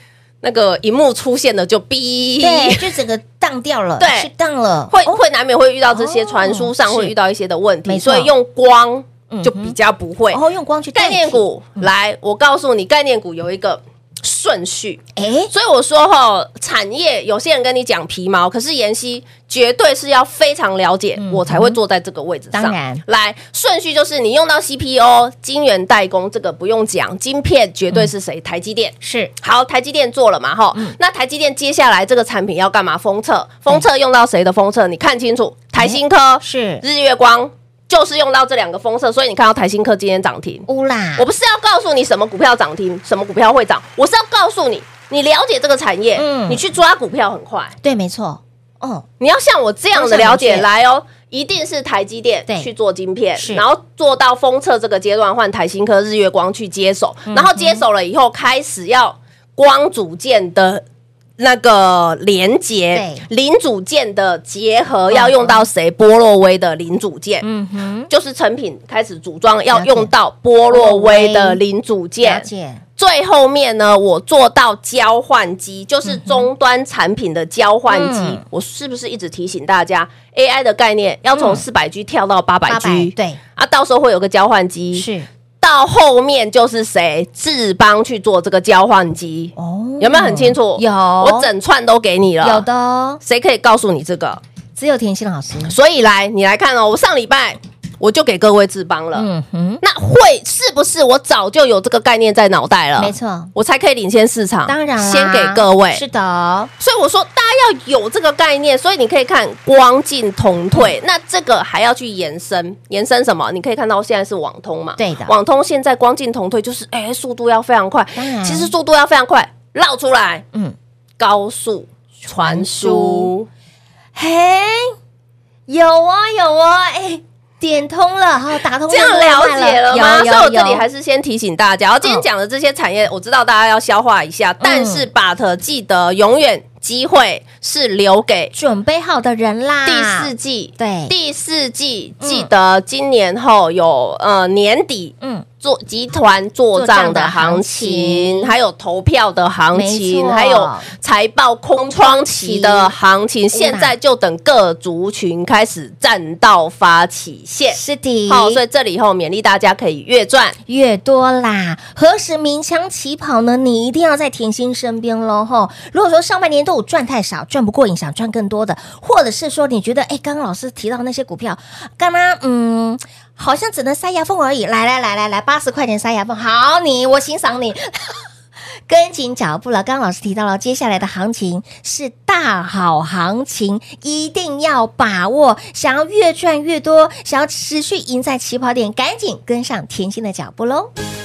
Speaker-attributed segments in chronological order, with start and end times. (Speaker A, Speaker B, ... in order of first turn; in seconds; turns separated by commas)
Speaker A: 0.4-2.9, Speaker B: 2.4-5.2, Speaker A: 4.0-4.3, Speaker A: 4.9-10.4, Speaker B: 5.9-7.1, Speaker B: 7.8-8.3, Speaker B: 9.3-9.8, Speaker B: 10.3-11.9, Speaker A: 10.9-40.6, Speaker B: 15.2-15.5, Speaker B: 21.2-21.8, Speaker B: 22.5-23.0, Speaker B: 29.0-29.3, Speaker B: 35.8-36.8, Speaker B: 40.7-41.3, Speaker A: 41.2-47.7, Speaker B: 46.1-46.6, Speaker B: 47.8-49.0, Speaker A: 49.2-60.8, Speaker B: 49.9-50.7, Speaker B: 53.4-53.6, Speaker B: 57.3-57.8, Speaker A: 61.4-67.5, Speaker B: 62.9-63.2, Speaker B: 65.1-65.7, Speaker B: 67.4-68.1, Speaker A: 68.1-72.5, Speaker B: 69.7-70.1, Speaker B: 70.7-71.6, Speaker B: 72.2-72.8, Speaker A: 73.0-85.1, Speaker B: 76.0-76.5, Speaker B: 77.9-78.4, Speaker B: 81.3-81.6, Speaker B: 82.7-83.4, Speaker B: 84.9-85.3, Speaker A: 85.6-92.6, Speaker B: 89.5-91.5, Speaker B: 92.4-93.2, Speaker A: 93.2-94.4, Speaker B: 94.8-95.8, Speaker A: 95.7-99.3, Speaker B: 99.1-99.8, Speaker A: 99.8-106.0, Speaker B: 103.0-103.5, Speaker B: 104.7-106.7, Speaker A: 106.8-120.5, Speaker B: 115.0-115.3, Speaker B: 118.1-118.7, Speaker A: 121.2-123.5, Speaker B: 122.4-123.3, Speaker B: 124.1-125.0, Speaker B: 125.7-130.8, Speaker A: 128.9-138.5, Speaker B: 134.6-135.1, Speaker B: 138.5-141.1, Speaker A: 139.8-160.6, Speaker B: 142.2-142.5, Speaker B: 145.2-145.4, Speaker B: 146.7-148.5, Speaker B: 149.7-150.9, Speaker B: 151.9-152.9, Speaker B: 153.5-153.9, Speaker B: 157.7-158.6, Speaker B: 160.7-178.2, Speaker B: 178.9-190.9